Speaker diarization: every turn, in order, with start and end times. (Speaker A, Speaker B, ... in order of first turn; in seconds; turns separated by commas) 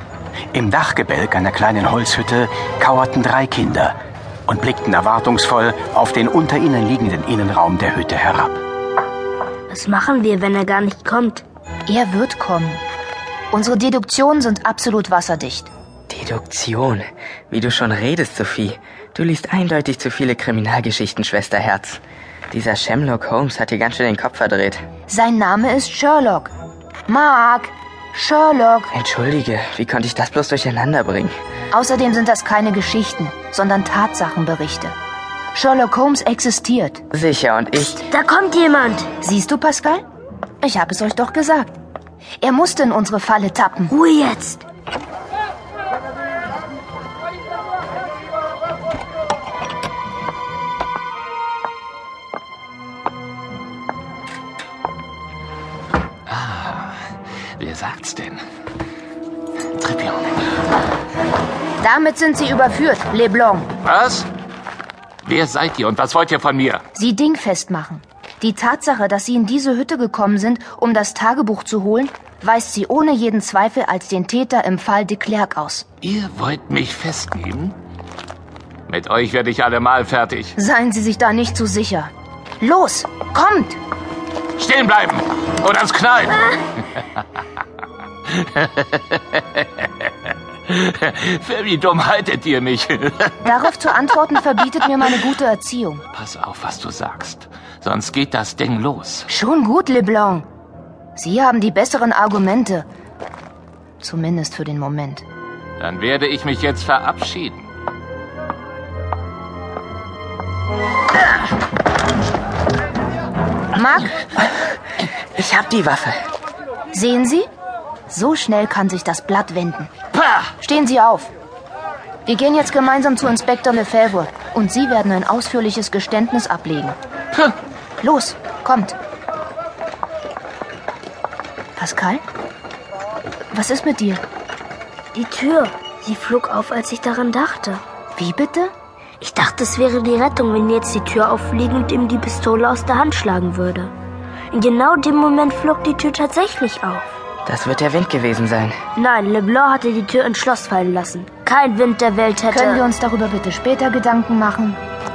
Speaker A: 0.6-3.9, Speaker A: 4.5-8.6, Speaker B: 9.7-11.4, Speaker C: 11.9-12.8, Speaker C: 13.5-15.7, Speaker D: 16.1-24.8, Speaker C: 25.1-26.5, Speaker C: 27.1-28.9, Speaker D: 28.9-31.3, Speaker C: 31.7-34.9, Speaker C: 35.5-37.0, Speaker D: 37.1-38.0, Speaker B: 38.0-39.1, Speaker C: 39.2-40.0, Speaker C: 40.6-41.7, Speaker C: 42.4-43.9, Speaker B: 43.9-44.6, Speaker E: 56.3-57.0, Speaker E: 57.6-58.4, Speaker E: 59.8-60.3, Speaker C: 61.8-63.7, Speaker E: 63.8-64.3, Speaker E: 65.2-66.8, Speaker C: 66.9-75.8, Speaker E: 76.0-77.8, Speaker E: 78.9-80.5, Speaker C: 80.6-83.8, Speaker E: 84.6-86.5, Speaker E: 88.3-90.1, Speaker E: 90.7-93.4, Speaker C: 93.4-96.0, Speaker E: 96.1-99.3, Speaker C: 99.3-100.5, Speaker C: 101.2-102.8, Speaker C: 104.0-105.2, Speaker E: 105.8-107.7, Speaker C: 113.7-114.2, Speaker D: 115.3-116.2, Speaker C: 116.9-117.5, Speaker C: 118.1-119.9, Speaker C: 120.6-121.3, Speaker C: 122.2-127.0, Speaker C: 128.0-128.9, Speaker C: 131.8-132.2, Speaker C: 133.5-134.2, Speaker B: 135.1-137.8, Speaker C: 138.1-138.7, Speaker B: 139.2-143.9, Speaker B: 144.5-147.0, Speaker D: 147.4-148.8, Speaker B: 148.9-152.8, Speaker C: 152.5-154.8